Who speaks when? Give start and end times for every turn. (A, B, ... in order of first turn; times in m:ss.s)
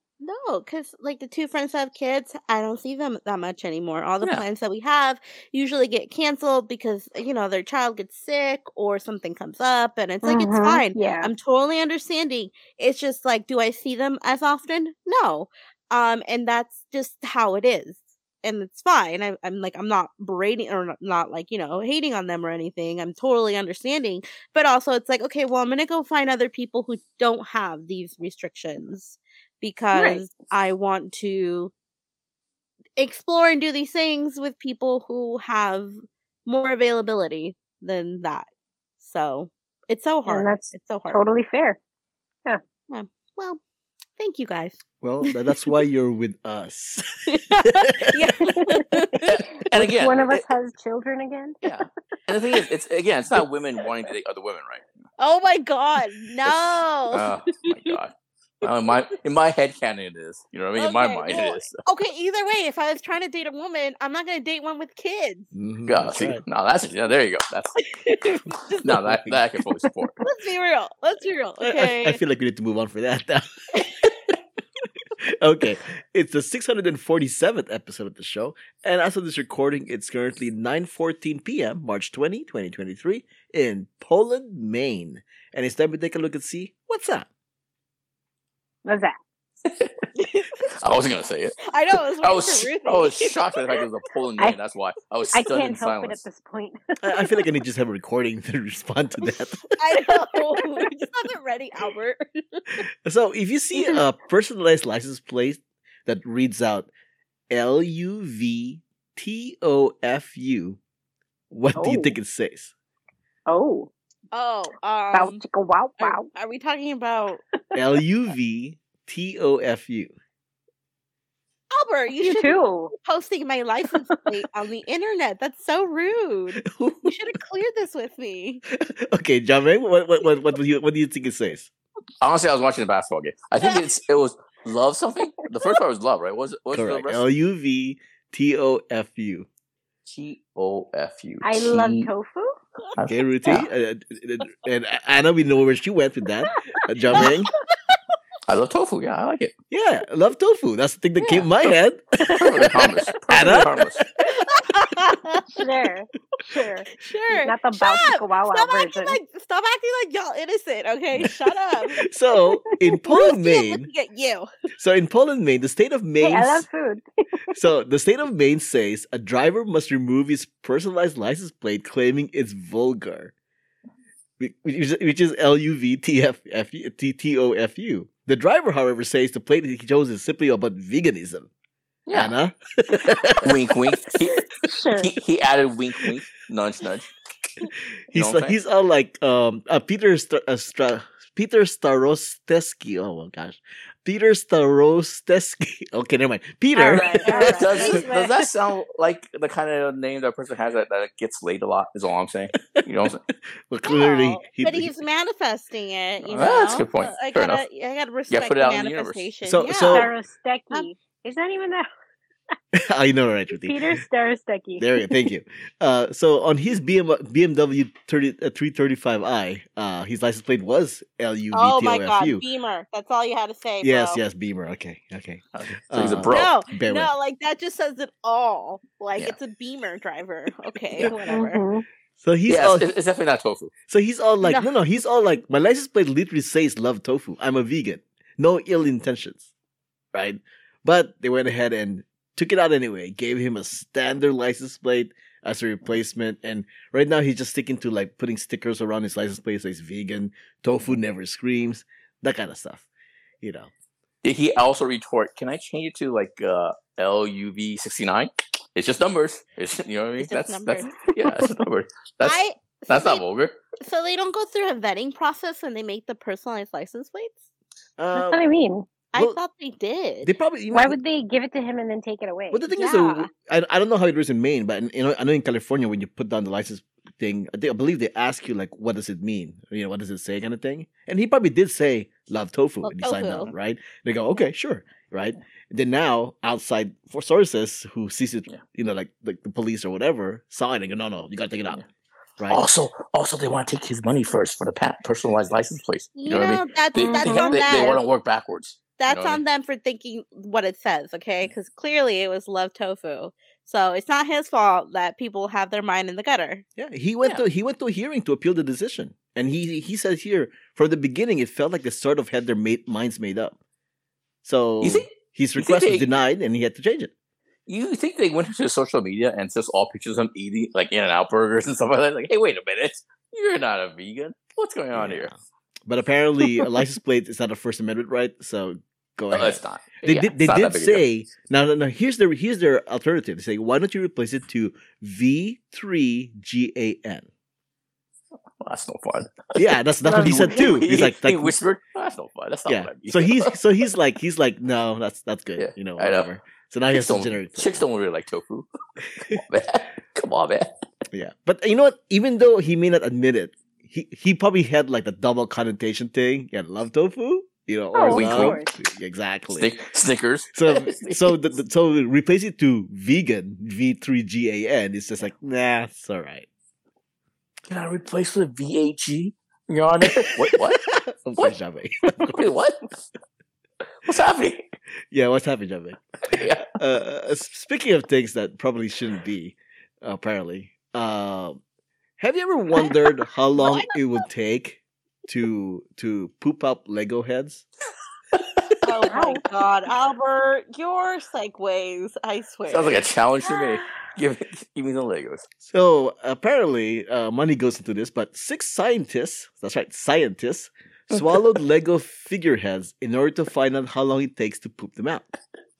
0:00.2-0:31.7 A
0:10.2-0:11.3 B
0:29.9-0:30.2 B
0:33.0-0:38.5 A
0:39.0-0:41.2 A
0:40.3-0:41.8 B
0:42.9-0:43.6 A
0:44.2-0:45.7 A
0:45.0-0:48.4 C
0:47.3-0:49.4 A
0:48.5-0:51.6 B
0:49.3-0:50.4 D
0:51.6-0:54.8 D
0:55.2-0:57.9 A
0:56.4-1:01.8 D
0:58.6-0:58.9 A
1:00.8-1:05.5 A
1:05.5-1:06.4 C
1:05.9-1:07.9 D
1:08.0-1:08.9 A
1:08.8-1:10.2 D
1:09.1-1:09.4 C
1:10.2-1:12.2 A
1:11.6-1:14.3 C
1:15.2-1:27.3 C
1:28.8-1:29.1 B
1:30.2-1:30.5 A
1:30.7-1:36.2 D
1:31.6-1:33.8 A
1:35.3-1:37.2 B
1:37.0-1:39.9 C
1:39.8-1:42.8 A
1:42.8-1:46.9 C
1:47.5-1:50.8 C
1:51.5-1:52.7 C
1:51.8-1:52.2 B
1:53.5-1:53.9 B
1:54.3-1:55.4 A
1:55.1-1:56.3 B
1:56.0-1:57.4 A
1:57.7-2:00.1 C
2:01.7-2:08.6 A
2:02.2-2:02.9 B
2:06.6-2:07.2 C
2:08.7-2:11.7 C
2:12.2-2:17.2 D
2:16.7-2:19.5 C
2:20.0-2:22.1 D
2:21.4-2:22.5 B
2:23.0-2:23.7 D
2:23.1-2:27.5 C
2:28.5-2:29.5 D
2:29.7-2:34.9 C
2:32.2-2:34.0 D
2:34.4-2:35.6 A
2:35.5-2:39.2 B
2:36.9-2:42.0 A
2:42.0-2:43.9 C
2:43.0-2:44.5 A
2:44.8-2:46.6 C
2:46.2-2:47.0 B
2:47.5-2:53.3 C
2:54.4-3:01.5 C
3:02.1-3:02.3 D
3:02.1-3:03.9 C
3:03.4-3:04.4 D
3:04.6-3:05.1 B
3:05.0-3:07.1 D
3:08.1-3:18.0 C
3:08.1-3:08.5 D
3:16.8-3:18.3 A
3:16.9-3:18.2 B
3:17.4-3:23.2 D
3:22.8-3:23.1 C
3:23.7-3:25.0 C
3:23.8-3:30.1 A
3:26.2-3:27.6 D
3:28.3-3:29.3 D
3:29.4-3:30.1 C
3:29.8-3:31.8 B
3:32.7-3:34.0 C
3:33.5-3:35.0 B
3:34.8-3:42.4 C
3:41.5-3:44.2 A
3:43.8-3:47.1 C
3:45.5-3:46.5 D
3:46.3-3:51.6 A
3:51.3-3:51.8 B
3:52.2-3:52.9 C
3:52.5-3:53.7 D
3:53.9-3:59.5 C
3:54.4-3:54.7 A
4:00.1-4:12.8 C
4:13.4-4:13.7 C
4:14.2-4:23.6 D
4:20.2-4:20.9 A
4:22.2-4:23.2 A
4:23.8-4:27.4 A
4:28.0-4:28.4 C
4:28.1-4:28.9 B
4:29.1-4:30.3 A
4:30.2-4:31.0 C
4:30.7-4:32.7 B
4:32.5-4:51.8 C
4:32.8-4:33.2 A
4:42.8-4:43.5 A
4:52.5-4:59.4 D
4:56.1-4:58.0 A
4:56.9-4:57.8 B
4:59.0-5:06.6 A
5:06.8-5:13.6 C
5:14.4-5:17.1 C
5:14.8-5:16.1 D
5:17.7-5:25.3 D
5:24.9-5:37.3 C
5:29.3-5:31.0 D
5:38.6-5:43.6 D
5:39.6-5:41.5 C
5:40.0-5:40.8 B
5:42.7-5:47.8 C
5:45.6-5:46.3 D
5:46.9-5:50.7 D
5:51.1-5:59.7 C
5:57.9-5:58.7 B
5:58.0-5:58.6 D
5:59.6-6:01.4 D
6:00.5-6:06.5 C
6:07.7-6:10.8 D
6:10.0-6:12.4 C
6:12.2-6:12.9 D
6:14.0-6:14.7 D
6:15.1-6:21.6 C
6:16.2-6:16.7 D
6:22.2-6:27.6 C
6:28.8-6:33.0 A
6:29.1-6:29.4 B
6:32.7-6:35.4 D
6:35.6-6:45.2 C